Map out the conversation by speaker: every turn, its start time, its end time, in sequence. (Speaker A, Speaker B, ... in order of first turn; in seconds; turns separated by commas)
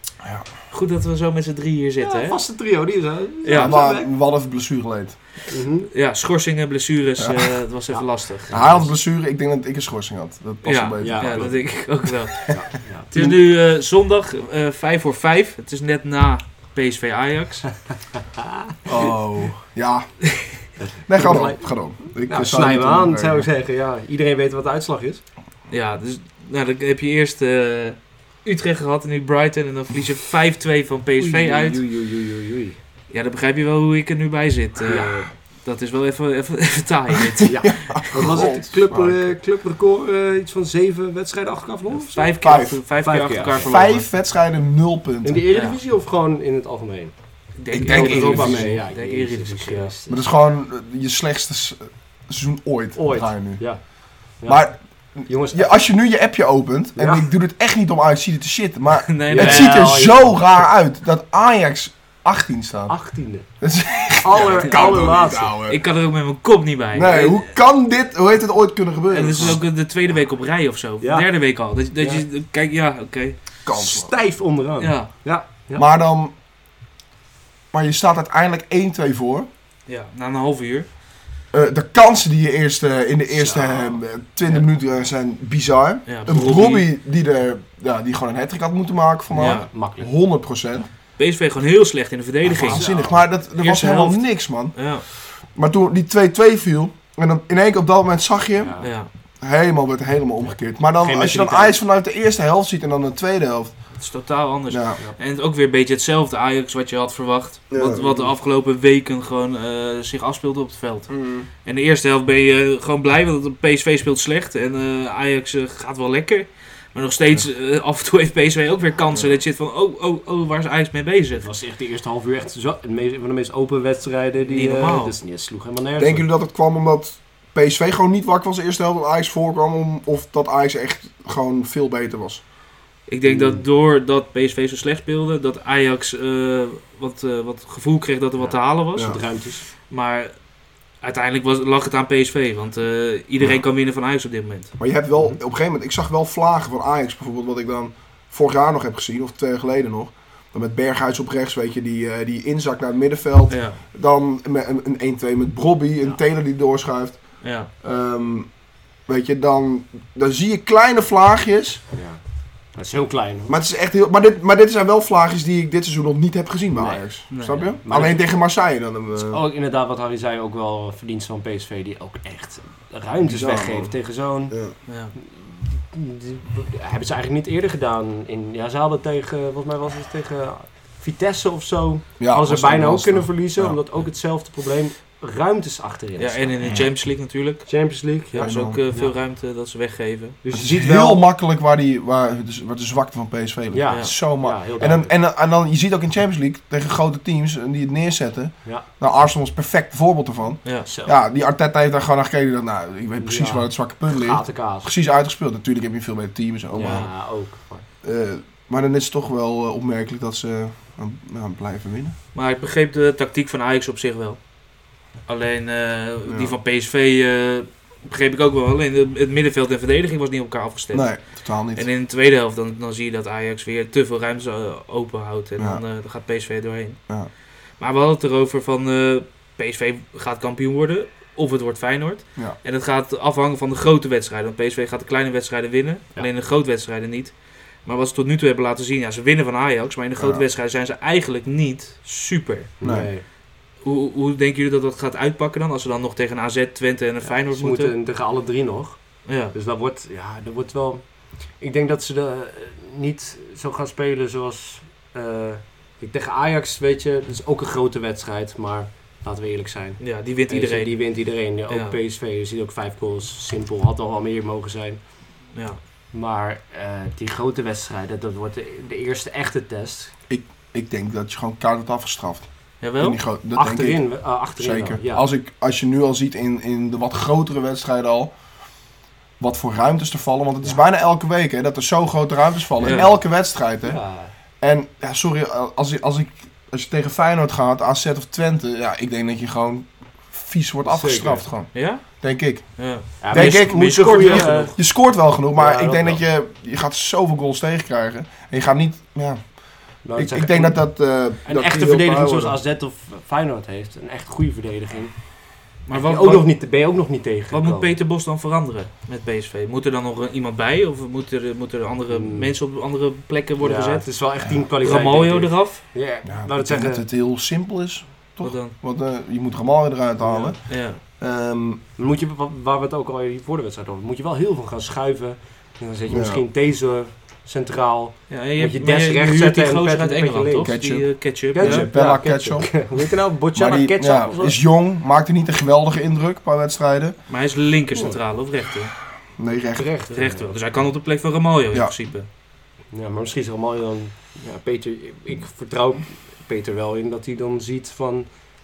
Speaker A: 0.7-2.4, Speaker B: 2.0-4.1, Speaker A: 3.4-3.8, Speaker C: 3.5-5.2, Speaker B: 5.5-5.9, Speaker A: 5.9-8.8, Speaker C: 7.2-7.5, Speaker B: 7.9-8.9, Speaker C: 8.5-11.7, Speaker A: 10.6-17.7, Speaker B: 11.0-11.6, Speaker B: 12.5-13.1, Speaker C: 18.9-20.2, Speaker B: 20.8-21.7, Speaker C: 21.1-23.5, Speaker B: 22.2-25.2, Speaker A: 25.7-31.8, Speaker B: 31.2-32.8, Speaker A: 33.1-38.0, Speaker B: 34.8-35.3, Speaker B: 37.4-42.3, Speaker C: 37.6-39.3, Speaker A: 42.0-44.0, Speaker C: 42.4-42.8, Speaker B: 43.0-43.6, Speaker C: 43.5-45.4, Speaker B: 45.2-47.1, Speaker A: 45.5-45.8, Speaker A: 47.6-49.9, Speaker C: 47.7-48.8, Speaker B: 47.8-50.3, Speaker C: 50.1-53.8, Speaker B: 53.0-55.7, Speaker C: 54.4-63.0, Speaker B: 57.0-57.2, Speaker A: 59.0-59.9, Speaker B: 59.3-60.6, Speaker B: 62.9-63.5, Speaker C: 63.6-65.8, Speaker B: 64.2-65.5, Speaker A: 64.4-67.5, Speaker C: 66.9-69.6, Speaker A: 69.1-73.4, Speaker B: 71.0-71.3, Speaker B: 72.0-72.2, Speaker C: 73.6-74.1, Speaker B: 73.7-75.8, Speaker A: 74.8-75.1, Speaker C: 75.8-76.3, Speaker C: 77.7-79.5, Speaker A: 79.8-80.9, Speaker C: 81.5-90.9, Speaker B: 83.3-84.0, Speaker A: 86.1-86.8, Speaker A: 89.3-89.7, Speaker B: 89.3-90.1, Speaker A: 91.2-92.9, Speaker C: 92.4-98.9, Speaker B: 92.5-93.3, Speaker A: 93.5-95.0, Speaker B: 98.6-98.9, Speaker A: 98.8-99.1, Speaker C: 99.4-103.8, Speaker B: 101.0-101.8, Speaker A: 104.0-121.5, Speaker C: 104.7-105.0, Speaker C: 107.7-108.2, Speaker C: 111.1-111.5, Speaker C: 119.1-119.4, Speaker B: 121.4-126.3, Speaker A: 124.4-125.1, Speaker C: 126.0-132.4, Speaker A: 133.1-139.2, Speaker B: 133.2-133.6, Speaker B: 138.4-139.6, Speaker A: 139.8-140.3, Speaker A: 141.0-144.7, Speaker C: 144.8-158.5, Speaker A: 153.5-153.8, Speaker A: 157.4-157.7, Speaker C: 159.1-161.8, Speaker B: 161.9-162.2, Speaker B: 162.7-163.6, Speaker C: 163.5-169.4, Speaker B: 166.7-168.2, Speaker A: 167.3-167.7, Speaker B: 169.2-174.6, Speaker C: 173.2-173.9, Speaker C: 174.5-174.7, Speaker A: 174.8-175.1, Speaker B: 175.2-187.0, Speaker C: 182.2-183.8, Speaker A: 186.2-190.4, Speaker C: 186.6-186.9, Speaker B: 187.7-189.1, Speaker C: 188.4-188.8, Speaker B: 190.4-191.2, Speaker C: 190.5-207.1, Speaker B: 193.7-195.2, Speaker B: 200.8-201.2, Speaker B: 203.2-204.9, Speaker B: 206.7-207.8, Speaker A: 206.8-207.1, Speaker C: 208.0-212.1, Speaker A: 212.3-214.4, Speaker A: 215.2-227.0, Speaker C: 216.2-216.6, Speaker C: 220.9-221.8, Speaker C: 225.6-225.8, Speaker A: 227.8-242.7, Speaker C: 240.2-240.4, Speaker B: 242.8-243.2, Speaker C: 242.8-243.1, Speaker A: 243.8-247.9, Speaker B: 247.2-265.0, Speaker A: 249.2-249.5, Speaker A: 260.0-262.0, Speaker B: 266.1-270.1, Speaker C: 270.3-278.3, Speaker A: 272.8-273.2, Speaker B: 273.5-275.2, Speaker C: 279.4-284.0, Speaker A: 282.8-283.1, Speaker B: 282.8-283.2, Speaker B: 283.8-284.3, Speaker C: 284.6-299.6, Speaker B: 290.9-291.5, Speaker A: 291.7-294.8, Speaker B: 293.2-294.8, Speaker B: 295.5-296.2, Speaker B: 300.0-300.8, Speaker C: 300.1-302.6, Speaker B: 301.4-305.3, Speaker A: 305.9-306.5, Speaker B: 305.9-307.9, Speaker A: 307.5-314.1, Speaker B: 312.1-312.5, Speaker B: 313.6-317.0, Speaker A: 314.8-315.8, Speaker C: 316.2-321.8, Speaker A: 318.4-318.7, Speaker A: 320.6-321.0, Speaker B: 322.0-330.7, Speaker C: 326.1-326.4, Speaker A: 328.3-331.9, Speaker C: 330.6-332.9, Speaker B: 331.5-334.6, Speaker C: 333.5-337.1, Speaker A: 337.3-338.9, Speaker B: 337.9-338.2, Speaker C: 339.4-339.8, Speaker B: 339.8-340.6, Speaker A: 340.1-342.3, Speaker B: 342.9-348.3